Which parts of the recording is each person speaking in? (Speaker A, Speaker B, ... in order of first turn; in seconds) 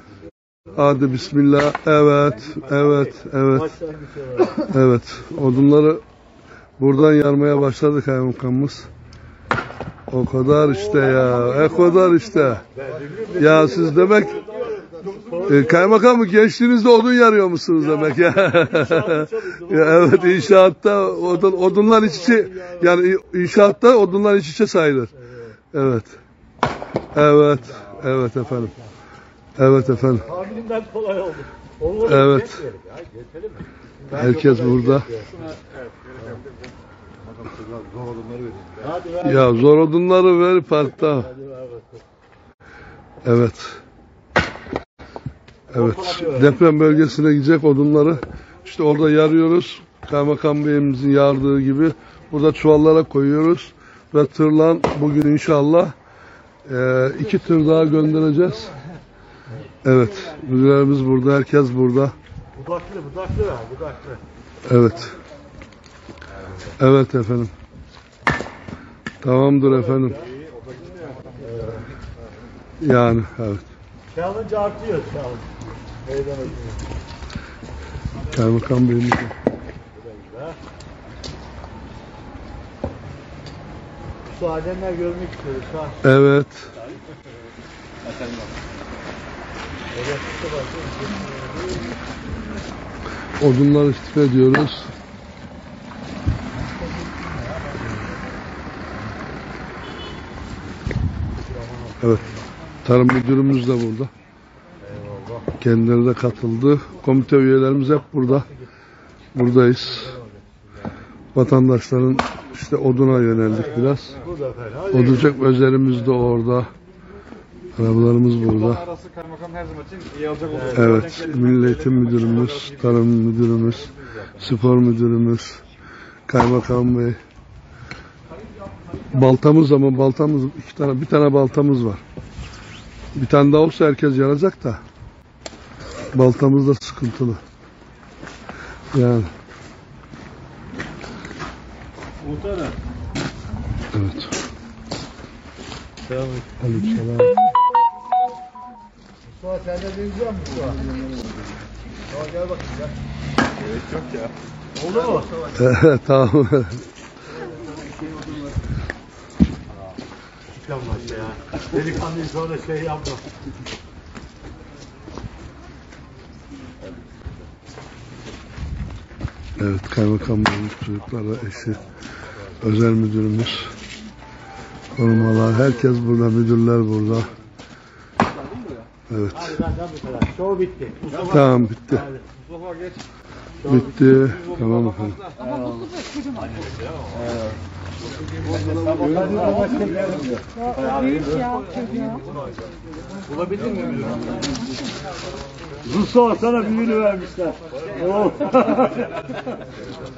Speaker A: 0.7-3.8, 4.5-6.0, 6.8-8.9, 10.1-12.6, 13.3-14.5, 15.4-25.1, 25.7-26.2, 27.1-28.7, 29.6-30.3, 32.0-32.6, 34.1-35.1, 39.2-41.3, 43.2-43.8, 45.7-55.9, 56.6-58.7, 59.8-62.1, 64.7-65.2, 66.8-67.5, 69.2-70.2, 72.8-73.7, 78.3-79.3, 86.0-86.7, 93.4-94.9, 102.8-104.1, 105.6-108.5, 109.3-110.2, 111.3-114.2, 114.9-116.7, 117.8-118.9, 120.7-125.6, 126.3-127.2, 129.1-132.0, 133.2-134.8, 136.1-137.4, 138.9-139.3, 143.9-144.3, 146.6-147.4, 155.5-156.8, 169.6-171.8, 172.6-173.7, 174.9-177.3, 179.1-179.5, 181.3-182.1, 183.6-185.3
Speaker B: 2.4-4.6, 10.6-11.9, 12.7-16.1, 17.8-22.9, 30.1-35.4, 38.8-39.5, 41.2-41.9, 45.7-46.5, 62.5-64.2, 69.9-70.3, 71.4-71.9, 74.1-76.9, 80.0-80.6, 84.3-86.0, 89.9-91.9, 96.5-98.0, 101.4-102.5, 104.8-105.5, 110.0-110.4, 114.2-115.3, 120.5-121.0, 142.3-142.7, 146.1-146.5, 149.3-150.9, 152.1-152.9, 154.8-155.5, 160.5-163.2, 179.3-182.2, 188.6-192.3, 193.3-194.4, 195.8-199.1
Speaker C: 35.9-36.4, 70.5-71.3, 118.9-120.7, 153.7-154.3, 182.6-182.9, 185.4-185.9, 188.5-190.0